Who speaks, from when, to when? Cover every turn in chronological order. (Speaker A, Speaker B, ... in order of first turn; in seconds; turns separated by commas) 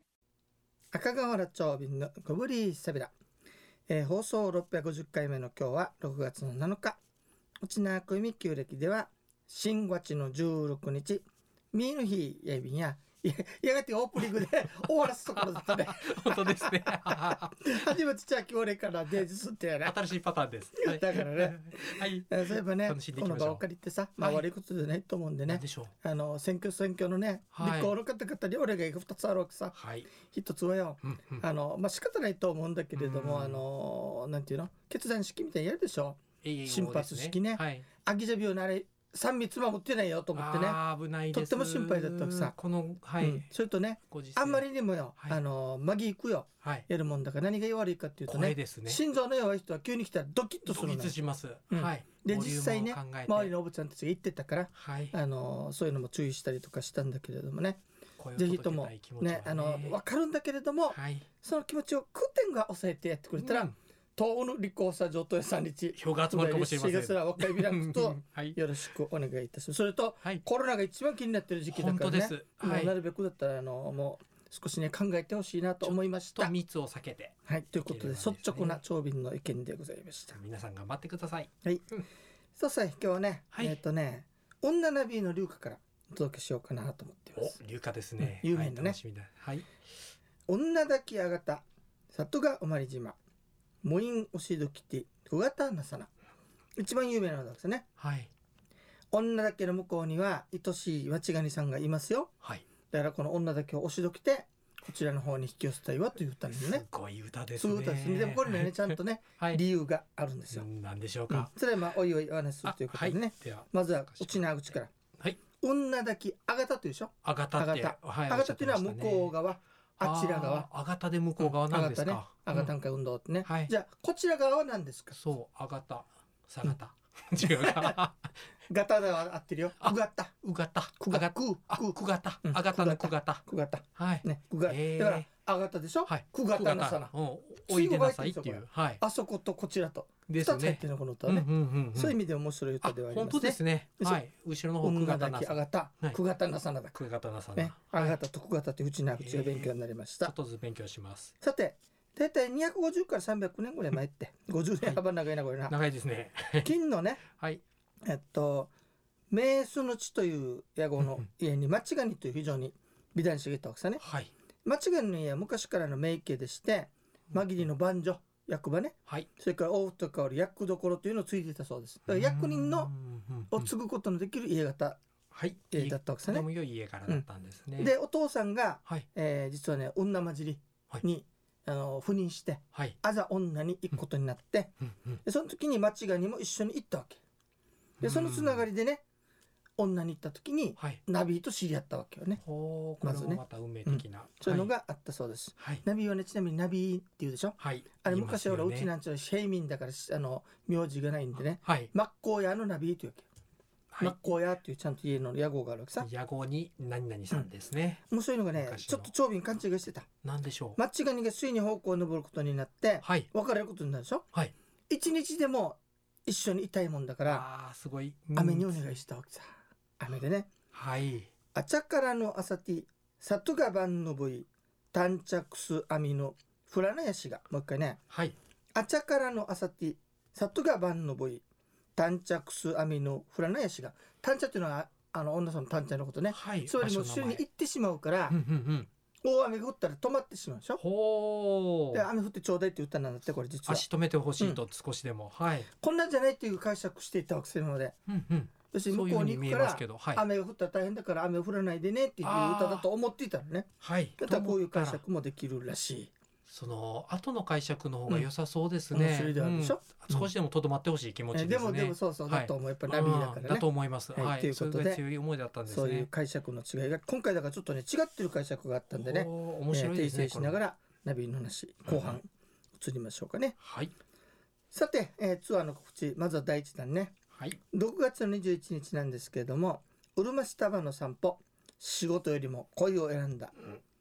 Speaker A: 0.9-3.1, Speaker A: 3.9-7.0, Speaker A: 7.6-20.0, Speaker B: 15.2-17.7, Speaker B: 19.8-23.6, Speaker A: 20.8-40.8, Speaker B: 24.2-24.4, Speaker B: 25.5-25.9, Speaker B: 27.5-27.9, Speaker B: 29.7-30.1, Speaker B: 31.0-31.4, Speaker B: 32.9-33.6, Speaker B: 36.4-37.9, Speaker B: 40.4-43.5, Speaker A: 41.3-42.5, Speaker A: 43.2-51.2, Speaker B: 44.1-44.6, Speaker B: 48.3-49.0, Speaker B: 50.7-53.5, Speaker A: 51.7-57.8, Speaker B: 54.8-55.1, Speaker B: 58.2-60.0, Speaker A: 58.4-76.5, Speaker B: 60.9-61.3, Speaker B: 63.4-63.7, Speaker B: 66.0-68.6, Speaker B: 71.7-72.9, Speaker B: 75.8-77.3, Speaker A: 77.5-80.4, Speaker B: 77.9-78.8, Speaker B: 80.3-81.5, Speaker A: 81.6-81.9, Speaker A: 82.6-87.6, Speaker B: 83.5-83.8, Speaker B: 87.4-89.7, Speaker A: 88.2-89.0, Speaker A: 90.5-93.2, Speaker A: 93.8-96.1, Speaker A: 96.8-97.9, Speaker B: 98.0-98.3, Speaker A: 99.1-102.3, Speaker A: 102.9-106.8, Speaker B: 106.5-109.6, Speaker A: 107.6-110.7, Speaker B: 110.5-111.5, Speaker A: 111.3-114.9, Speaker B: 112.7-114.5, Speaker A: 115.6-120.7, Speaker B: 117.2-119.4, Speaker B: 120.0-122.7, Speaker A: 121.4-125.2, Speaker B: 123.4-123.7, Speaker B: 125.1-128.3, Speaker A: 127.4-128.0, Speaker A: 128.7-137.1, Speaker B: 129.8-133.4, Speaker B: 133.9-135.3, Speaker B: 136.1-139.0, Speaker A: 137.7-144.2, Speaker B: 140.3-142.2, Speaker B: 142.8-146.2, Speaker A: 144.8-147.0, Speaker B: 146.9-148.2, Speaker A: 147.6-150.3, Speaker B: 149.2-149.7, Speaker B: 150.2-151.3, Speaker A: 151.4-155.8, Speaker B: 155.7-156.7, Speaker A: 156.6-157.2, Speaker B: 157.3-157.6, Speaker A: 158.0-158.7, Speaker A: 159.3-164.0, Speaker B: 164.0-164.3, Speaker A: 164.7-172.9, Speaker B: 172.1-173.7, Speaker A: 173.5-175.0, Speaker B: 175.3-177.9, Speaker A: 175.7-176.5, Speaker A: 177.8-187.2, Speaker B: 184.8-185.2, Speaker B: 188.0-188.7, Speaker A: 188.0-189.0, Speaker A: 189.8-192.4, Speaker B: 192.4-194.7, Speaker A: 193.0-203.3, Speaker B: 195.6-195.8, Speaker B: 197.6-198.9, Speaker B: 201.6-201.9, Speaker B: 203.9-204.4, Speaker A: 204.0-206.1, Speaker B: 206.0-209.1, Speaker A: 208.1-210.1, Speaker B: 210.2-210.8, Speaker A: 210.8-214.3, Speaker B: 213.0-213.3, Speaker A: 214.9-217.5, Speaker B: 217.2-219.0, Speaker A: 218.4-220.5, Speaker B: 220.7-221.3, Speaker A: 221.5-228.0, Speaker B: 228.1-228.3, Speaker A: 228.8-231.4, Speaker A: 232.0-238.4, Speaker B: 236.3-237.4, Speaker B: 238.3-238.9, Speaker A: 239.2-240.8, Speaker B: 240.8-242.1, Speaker A: 241.9-243.9, Speaker B: 243.7-245.7, Speaker A: 245.7-248.0, Speaker B: 248.1-250.2, Speaker A: 248.7-256.1, Speaker B: 252.2-252.9, Speaker B: 253.8-255.0, Speaker B: 256.5-266.1, Speaker A: 258.9-260.3, Speaker A: 261.3-265.0, Speaker A: 265.7-273.6, Speaker B: 268.9-270.6, Speaker B: 271.9-272.2, Speaker B: 273.6-273.9, Speaker A: 274.7-277.1, Speaker B: 277.3-277.6, Speaker A: 277.7-283.7